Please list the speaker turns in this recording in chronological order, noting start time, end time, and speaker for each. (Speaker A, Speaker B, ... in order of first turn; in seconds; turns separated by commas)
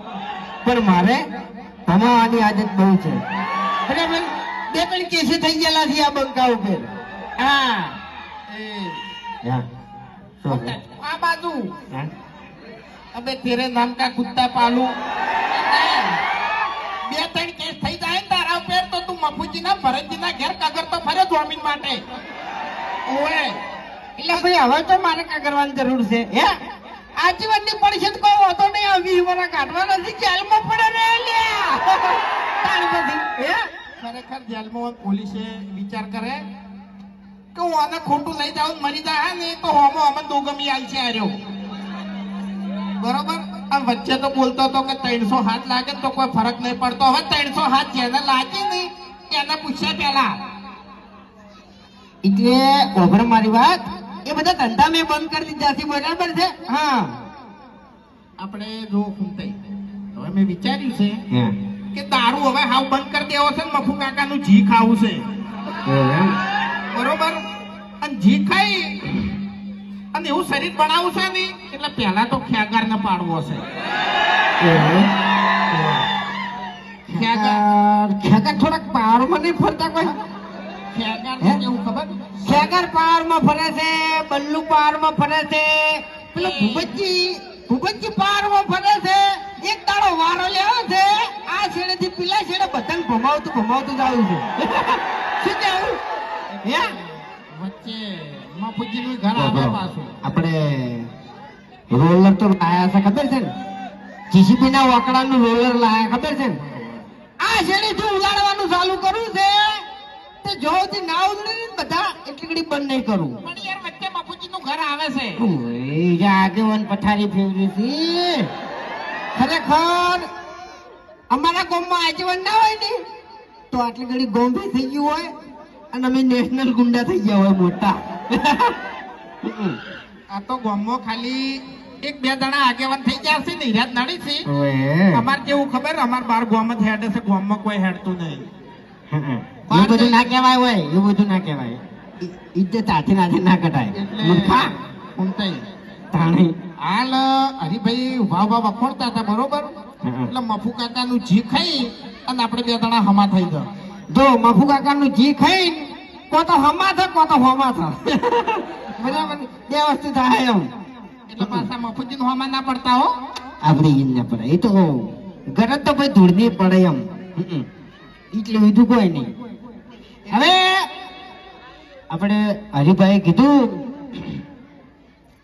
Speaker A: 0.6-1.2, Speaker A: 1.9-3.2, Speaker A: 3.9-6.9, Speaker B: 7.4-9.0, Speaker A: 10.4-10.8, Speaker B: 10.5-11.7, Speaker B: 13.1-14.9, Speaker B: 15.5-16.2, Speaker B: 17.1-22.0, Speaker B: 23.1-23.6, Speaker A: 24.2-26.5, Speaker A: 27.2-33.6, Speaker B: 34.0-36.4, Speaker B: 37.5-41.3, Speaker B: 43.0-50.4, Speaker A: 52.2-57.1, Speaker B: 58.4-59.6, Speaker B: 60.1-61.2, Speaker B: 61.9-65.2, Speaker A: 65.9-66.3, Speaker B: 66.9-67.4, Speaker B: 68.0-69.3, Speaker B: 70.1-73.6, Speaker A: 74.6-75.1, Speaker A: 75.7-76.0, Speaker A: 77.1-80.2, Speaker B: 77.1-77.6, Speaker B: 80.9-82.7, Speaker A: 82.4-96.0, Speaker B: 86.4-86.9, Speaker A: 96.6-96.9, Speaker B: 97.5-100.2, Speaker A: 99.3-101.1, Speaker A: 101.9-103.5, Speaker A: 104.3-106.6, Speaker B: 106.6-107.1, Speaker A: 107.4-109.8, Speaker A: 110.4-113.4, Speaker B: 113.4-115.4, Speaker A: 115.4-118.5, Speaker A: 119.3-120.3, Speaker A: 121.3-123.0, Speaker A: 123.7-125.3, Speaker A: 125.9-128.8, Speaker A: 129.4-129.8, Speaker B: 130.3-134.5, Speaker A: 134.4-135.3, Speaker B: 135.1-138.5, Speaker A: 139.1-144.7, Speaker B: 139.7-140.3, Speaker B: 143.9-145.7, Speaker A: 146.1-146.6, Speaker B: 146.8-149.7, Speaker A: 150.0-150.3, Speaker B: 150.3-153.7, Speaker A: 154.1-160.7, Speaker B: 159.1-159.3, Speaker B: 161.3-163.1, Speaker A: 161.4-161.7, Speaker A: 163.6-167.7, Speaker A: 168.3-169.3, Speaker A: 170.3-170.9, Speaker A: 172.1-174.4